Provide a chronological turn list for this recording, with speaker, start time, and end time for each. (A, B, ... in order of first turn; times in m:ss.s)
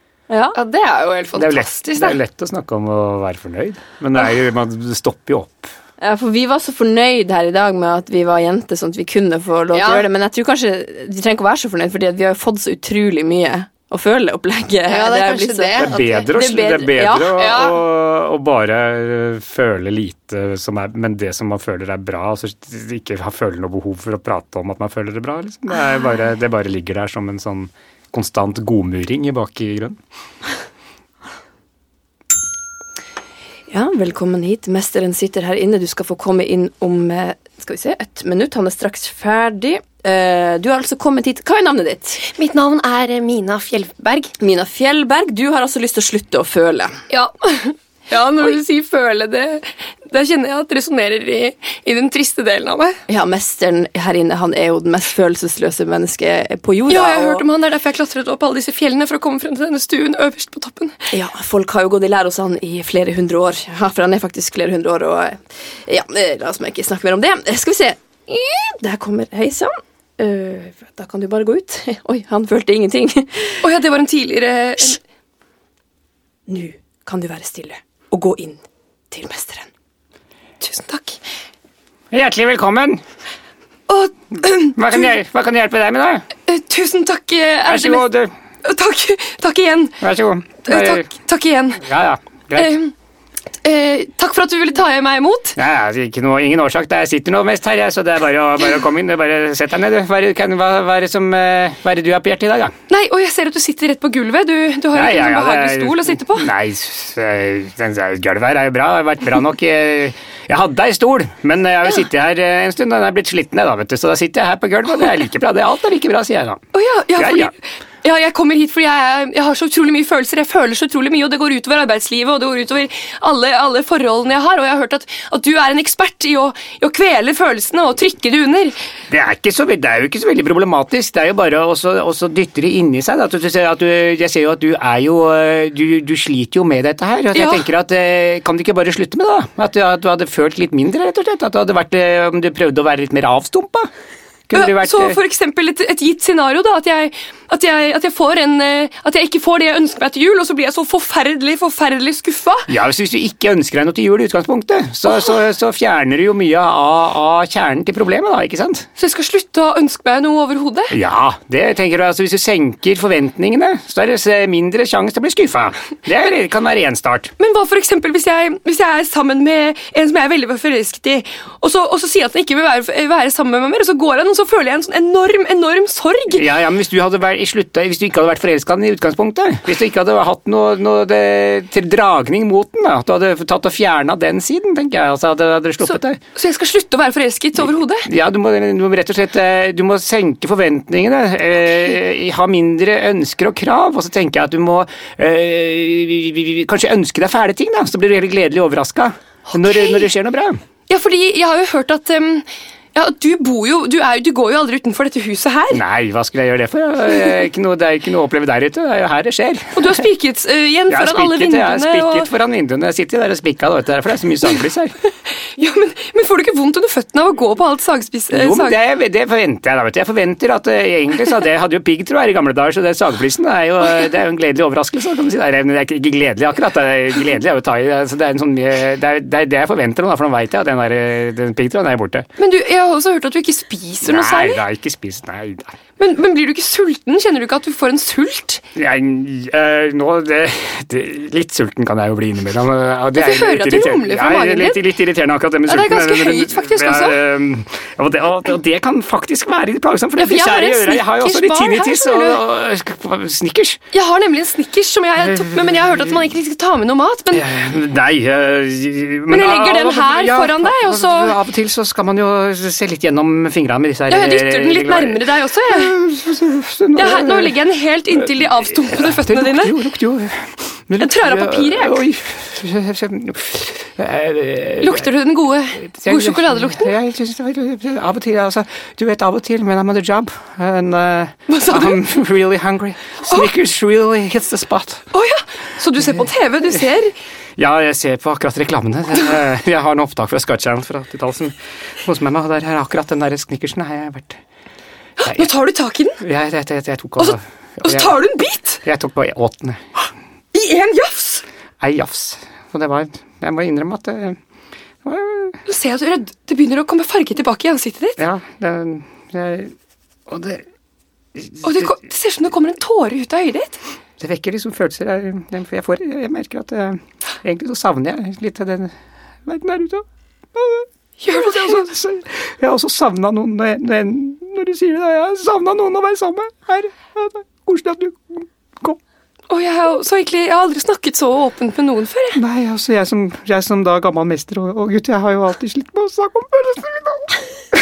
0:00.3-0:00.6 A
0:00.5-0:02.2 B
0:01.4-0:05.7 C
0:06.0-0:17.5 A
0:09.7-0:10.1 B
0:14.9-0:16.3 B
0:15.7-0:30.0 C
0:17.3-0:17.8 B
0:33.7-0:42.3 A
0:42.3-0:44.3 B
0:44.4-0:47.0 A
0:47.1-0:53.0 B
0:53.1-0:57.4 A
0:56.9-1:01.0 B
1:01.1-1:13.7 A
1:13.6-1:15.0 B
1:16.5-1:19.7 A
1:20.6-1:21.2 B
1:22.1-1:23.0 C
1:23.9-1:25.1 B
1:24.7-1:26.2 C
1:26.5-1:28.1 B
1:27.6-1:28.3 C
1:28.6-1:30.0 B
1:30.0-1:31.1 C
1:30.6-1:31.8 B
1:31.8-1:32.8 C
1:32.5-1:32.9 B
1:33.6-1:35.6 B
1:35.6-1:42.7 C
1:42.9-1:46.5 B
1:44.9-1:56.6 C
1:56.7-2:08.7 B
1:57.2-1:57.5 C
2:09.1-2:23.9 C
2:17.3-2:17.6 B
2:24.5-2:25.2 C
2:24.5-2:32.7 B
2:32.7-2:38.9 C
2:39.0-2:40.9 B
2:40.9-2:47.3 C
2:47.4-2:56.4 B
2:56.3-3:06.2 C
3:05.8-3:08.1 B
3:08.0-3:20.6 C
3:20.9-3:25.8 B
3:25.7-3:30.0 C
3:29.7-3:32.3 B
3:30.9-3:34.9 C
3:35.5-3:38.8 B
3:38.3-3:52.2 C
3:52.4-3:54.6 B
3:54.0-3:55.7 C
3:56.0-3:58.6 B
3:58.7-4:13.8 C
4:03.1-4:04.9 B
4:05.6-4:07.2 B
4:10.2-4:12.4 B
4:13.9-4:17.5 B
4:15.2-4:16.2 C
4:17.3-4:27.6 C
4:19.3-4:21.4 B
4:24.1-4:26.0 B
4:27.0-4:29.9 B
4:28.2-4:35.1 C
4:31.0-4:32.0 B
4:34.8-4:36.9 B
4:35.8-4:45.0 C
4:41.5-4:42.0 B
4:45.1-4:47.1 B
4:47.6-4:54.4 C
4:55.2-4:56.2 B
4:56.2-4:58.1 C
4:57.2-4:58.8 B
4:58.8-4:59.8 C
5:00.5-5:01.4 B
5:01.8-5:04.4 C
5:05.0-5:05.6 C
5:05.6-5:08.2 B
5:08.2-5:09.7 C
5:10.3-5:10.6 C
5:11.4-5:11.9 C
5:11.6-5:13.8 B
5:14.2-5:18.9 C
5:19.4-5:20.0 C
5:20.6-5:20.8 C
5:21.2-5:21.9 B
5:21.5-5:29.0 C
5:29.5-5:32.4 B
5:32.3-5:37.3 C